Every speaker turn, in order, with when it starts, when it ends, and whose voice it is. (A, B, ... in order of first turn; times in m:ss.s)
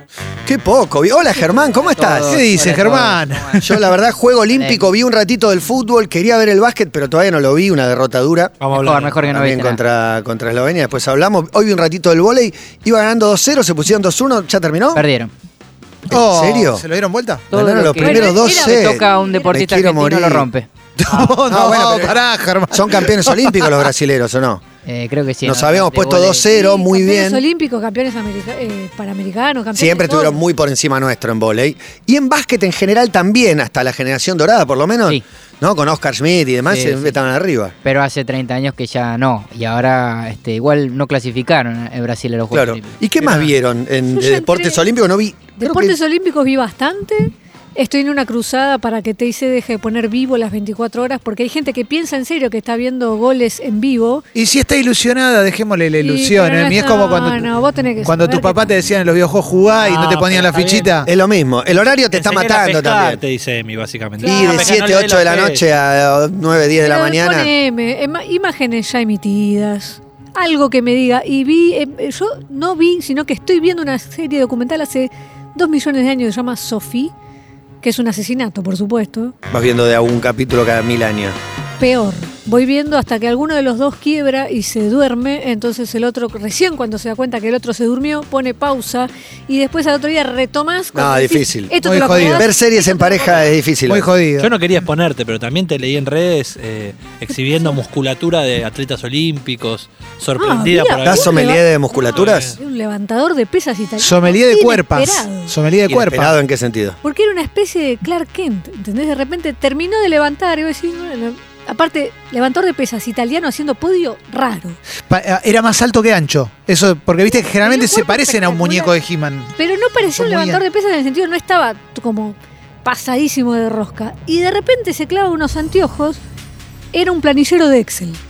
0:00.5-0:02.4 A
0:02.0-0:03.6 B
0:02.3-0:03.9 C
0:03.6-0:08.6 A
0:04.5-0:04.9 B
0:08.6-0:09.2 D
0:08.8-0:09.8 B
0:09.2-0:15.0 A
0:15.0-0:15.3 B
0:16.1-0:16.8 A
0:16.1-0:17.5 C
0:17.5-0:19.0 A
0:17.5-0:20.7 B
0:18.0-0:19.6 E
0:19.5-0:22.2 A
0:21.1-0:23.9 C
0:22.7-0:24.6 A
0:24.8-0:26.5 B
0:25.4-0:27.4 A
0:26.5-0:30.4 E
0:29.8-0:37.8 A
0:36.7-0:37.2 B
0:37.8-0:43.0 B
0:42.5-0:46.0 A
0:44.1-0:44.8 E
0:45.6-0:54.2 E
0:54.4-0:57.5 C
0:56.0-0:58.7 E
0:58.0-1:01.1 C
0:59.8-1:00.9 D
1:01.1-1:03.2 A
1:02.1-1:05.6 D
1:04.2-1:04.7 E
1:04.2-1:07.5 A
1:06.8-1:17.1 E
1:17.8-1:19.3 E
1:19.5-1:21.4 A
1:21.8-1:33.5 E
1:30.9-1:34.1 A
1:31.8-1:32.5 C
1:33.9-1:34.6 C
1:34.4-1:41.6 D
1:40.4-1:45.5 E
1:41.0-1:42.6 A
1:42.2-1:42.6 D
1:44.0-1:46.4 C
1:45.9-1:47.0 A
1:47.0-1:54.8 E
1:55.1-1:59.6 C
1:57.4-1:59.0 E
1:59.6-2:06.2 E
2:00.1-2:00.6 C
2:06.9-2:08.2 E